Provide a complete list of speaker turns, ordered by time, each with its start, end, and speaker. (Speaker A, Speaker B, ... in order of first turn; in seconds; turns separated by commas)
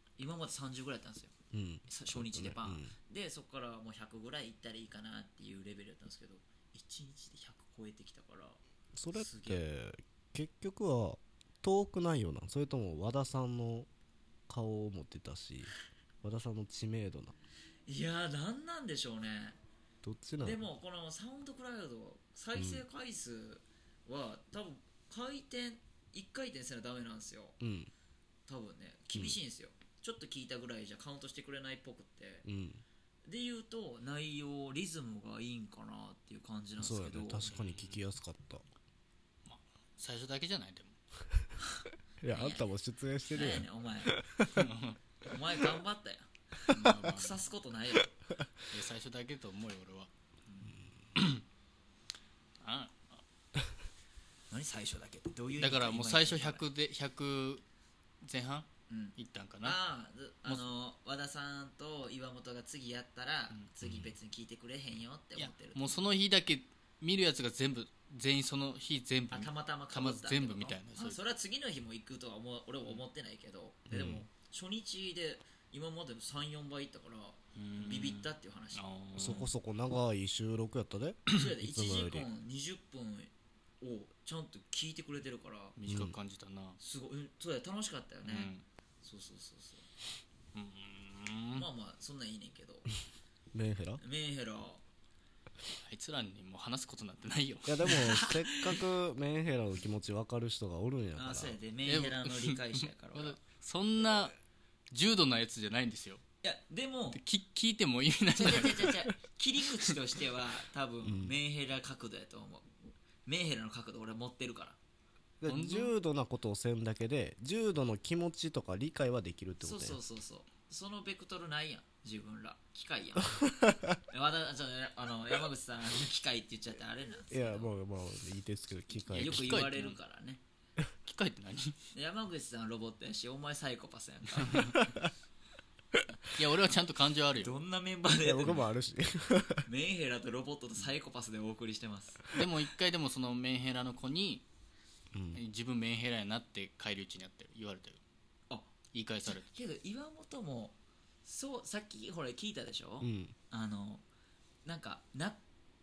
Speaker A: 0.2-1.3, Speaker B: 1.5-2.9, Speaker A: 1.9-8.6, Speaker B: 8.9-13.9, Speaker A: 9.1-9.6, Speaker B: 14.5-15.7, Speaker B: 16.2-17.4, Speaker A: 17.9-19.6, Speaker B: 20.0-20.6, Speaker A: 20.4-27.6, Speaker B: 22.5-22.8, Speaker B: 27.6-27.9, Speaker A: 28.5-32.4, Speaker B: 32.4-32.8, Speaker A: 33.2-37.5, Speaker B: 36.8-38.6, Speaker C: 37.5-38.0, Speaker C: 39.5-41.0, Speaker A: 41.6-42.7, Speaker B: 42.2-44.7, Speaker A: 43.3-44.2, Speaker C: 44.5-45.0, Speaker A: 45.2-48.1, Speaker C: 46.7-47.5, Speaker C: 48.7-50.1, Speaker B: 50.7-51.1, Speaker C: 51.1-51.4, Speaker C: 52.6-53.2, Speaker A: 54.5-56.6, Speaker C: 55.6-57.6, Speaker C: 58.2-59.8, Speaker A: 58.9-65.9, Speaker C: 65.4-71.2, Speaker A: 69.3-79.5, Speaker B: 73.9-74.2, Speaker C: 77.5-79.5, Speaker B: 79.1-82.3, Speaker A: 81.3-85.8, Speaker C: 85.8-86.8, Speaker B: 85.9-86.2, Speaker A: 86.8-88.5, Speaker C: 88.2-88.6, Speaker A: 89.0-89.9, Speaker C: 90.5-91.7, Speaker A: 91.5-92.9, Speaker B: 93.5-94.0, Speaker A: 94.0-94.8, Speaker C: 95.8-98.3, Speaker B: 97.7-101.6, Speaker A: 101.2-103.4, Speaker C: 101.8-104.3, Speaker C: 104.9-106.2, Speaker A: 106.4-107.2, Speaker C: 107.1-109.0, Speaker A: 108.3-112.7, Speaker B: 111.0-111.3, Speaker A: 113.2-114.8, Speaker B: 115.4-120.0, Speaker C: 115.5-115.9, Speaker A: 119.6-123.4, Speaker A: 124.1-127.7, Speaker B: 127.3-129.7, Speaker C: 129.1-130.0, Speaker A: 129.1-130.4, Speaker C: 131.0-131.8, Speaker A: 131.9-134.8, Speaker C: 134.4-134.8, Speaker C: 136.3-137.6, Speaker A: 137.4-138.6, Speaker B: 138.2-139.7, Speaker A: 139.7-142.3, Speaker C: 142.3-144.4, Speaker B: 145.1-145.4, Speaker C: 145.3-148.0, Speaker C: 148.9-149.5, Speaker A: 149.3-154.0, Speaker B: 153.0-153.3, Speaker A: 154.6-155.4